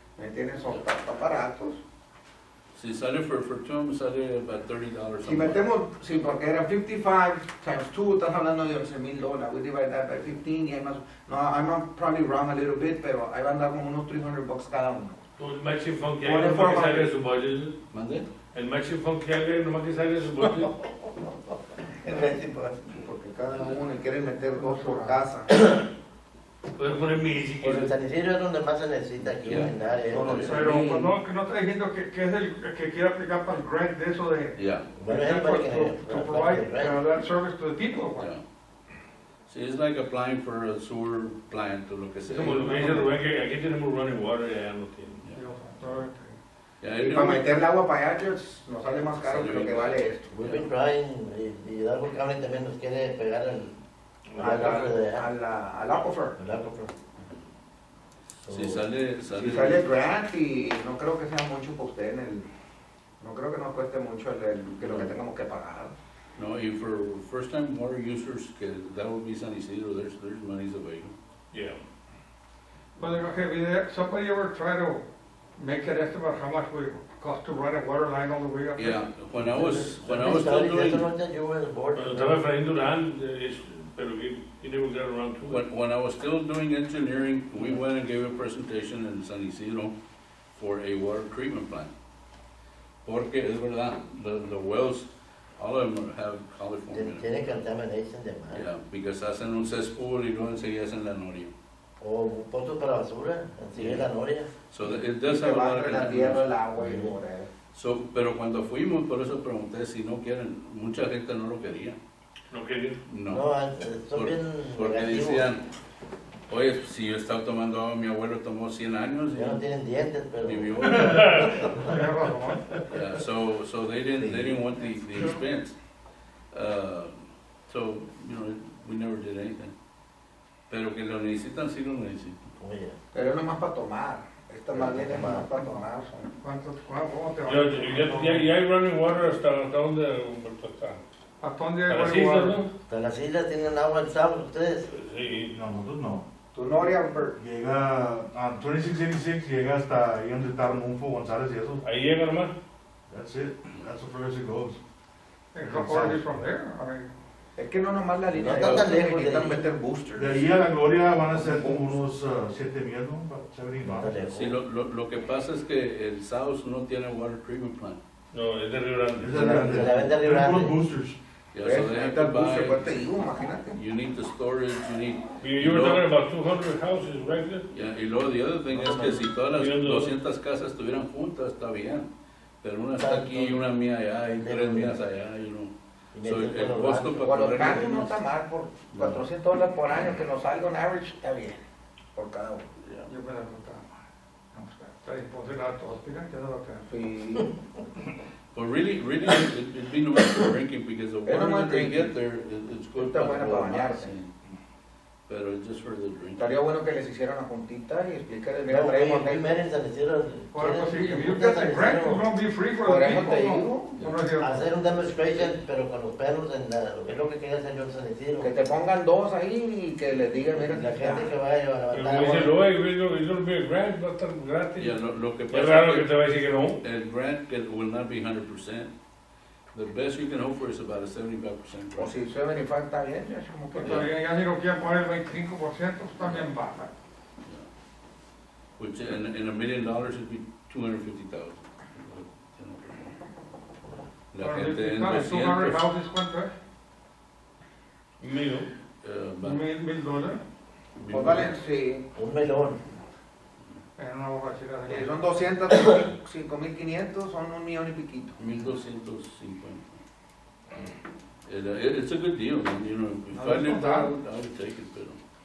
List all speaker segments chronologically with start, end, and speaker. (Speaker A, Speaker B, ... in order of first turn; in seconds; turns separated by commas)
Speaker A: 0.2-1.8, Speaker B: 2.8-5.6, Speaker A: 5.2-15.2, Speaker C: 15.4-17.8, Speaker A: 16.2-17.1, Speaker B: 17.9-18.3, Speaker C: 18.5-20.7, Speaker A: 22.0-25.5, Speaker D: 24.6-25.2, Speaker C: 26.8-27.9, Speaker E: 27.6-30.8, Speaker B: 29.4-31.1, Speaker D: 30.1-38.3, Speaker B: 34.5-34.9, Speaker E: 35.0-37.0, Speaker B: 39.5-42.9, Speaker C: 42.3-45.2, Speaker D: 42.3-43.2, Speaker D: 45.3-46.4, Speaker B: 46.8-47.5, Speaker A: 47.0-50.3, Speaker B: 49.2-50.6, Speaker E: 50.3-53.8, Speaker C: 54.3-54.9, Speaker E: 54.4-55.3, Speaker A: 54.4-56.4, Speaker E: 56.4-56.9, Speaker E: 58.4-58.8, Speaker B: 58.5-59.9, Speaker A: 59.3-62.5, Speaker A: 63.2-65.9, Speaker B: 64.8-65.1, Speaker B: 66.4-71.2, Speaker C: 71.5-71.8, Speaker D: 73.0-75.1, Speaker D: 75.6-79.0, Speaker B: 78.8-81.0, Speaker E: 79.4-82.4, Speaker C: 82.0-85.6, Speaker B: 85.5-90.0, Speaker B: 90.5-91.9, Speaker B: 93.0-97.3, Speaker E: 96.9-98.7, Speaker B: 98.5-101.5, Speaker E: 102.0-104.5, Speaker B: 103.8-104.1, Speaker B: 104.7-106.5, Speaker A: 104.8-107.5, Speaker E: 106.8-107.1, Speaker B: 107.7-112.0, Speaker C: 112.5-113.0, Speaker B: 113.1-113.5, Speaker E: 113.3-115.5, Speaker B: 114.1-115.6, Speaker B: 116.5-119.6, Speaker E: 119.3-121.2, Speaker B: 120.4-121.5, Speaker C: 121.1-121.9, Speaker D: 121.8-122.6, Speaker B: 122.9-125.8, Speaker E: 124.2-124.5, Speaker B: 126.5-127.1, Speaker B: 127.7-129.7, Speaker B: 130.7-132.4, Speaker E: 132.6-133.0, Speaker A: 133.1-136.3, Speaker E: 134.7-135.5, Speaker D: 136.4-138.5, Speaker C: 137.5-141.0, Speaker D: 141.4-142.7, Speaker C: 141.9-142.7, Speaker E: 142.9-144.9, Speaker C: 144.9-145.6, Speaker F: 145.5-146.2, Speaker A: 146.5-147.4, Speaker F: 147.4-151.8, Speaker C: 151.8-152.5, Speaker F: 153.1-154.8, Speaker D: 155.5-157.1, Speaker F: 155.6-156.3, Speaker A: 157.6-160.5, Speaker E: 158.3-159.6, Speaker F: 160.2-164.1, Speaker A: 161.2-161.9, Speaker E: 163.8-164.6, Speaker B: 164.3-168.0, Speaker C: 168.3-169.7, Speaker F: 169.2-171.2, Speaker E: 169.3-170.8, Speaker B: 171.5-173.0, Speaker A: 171.6-173.8, Speaker B: 173.7-176.0, Speaker C: 175.4-177.7, Speaker B: 177.7-182.1, Speaker E: 178.7-179.2, Speaker C: 179.5-180.1, Speaker B: 182.6-188.2, Speaker E: 183.0-183.7, Speaker E: 184.3-185.0, Speaker E: 186.1-188.0, Speaker A: 187.2-191.6, Speaker A: 192.2-192.7, Speaker D: 193.1-193.8, Speaker D: 194.5-196.8, Speaker A: 196.9-197.5, Speaker B: 198.5-204.3, Speaker A: 201.2-202.1, Speaker A: 203.0-204.2, Speaker B: 205.3-206.6, Speaker A: 206.4-209.6, Speaker E: 208.7-212.2, Speaker D: 210.5-214.7, Speaker A: 212.9-213.9, Speaker E: 214.4-218.5, Speaker A: 218.4-221.3, Speaker E: 220.5-222.5, Speaker C: 221.9-225.0, Speaker B: 224.8-226.1, Speaker C: 225.5-226.8, Speaker B: 226.8-228.9, Speaker B: 229.7-232.1, Speaker A: 232.0-234.1, Speaker D: 233.7-236.9, Speaker B: 238.8-243.2, Speaker B: 244.3-245.9, Speaker D: 244.4-246.5, Speaker C: 248.2-248.7, Speaker B: 249.0-249.7, Speaker D: 249.4-250.4, Speaker B: 251.0-251.6, Speaker A: 251.1-252.1, Speaker E: 252.2-252.8, Speaker D: 254.0-255.2, Speaker A: 254.9-258.4, Speaker B: 258.4-260.0, Speaker B: 261.4-265.2, Speaker D: 263.3-264.1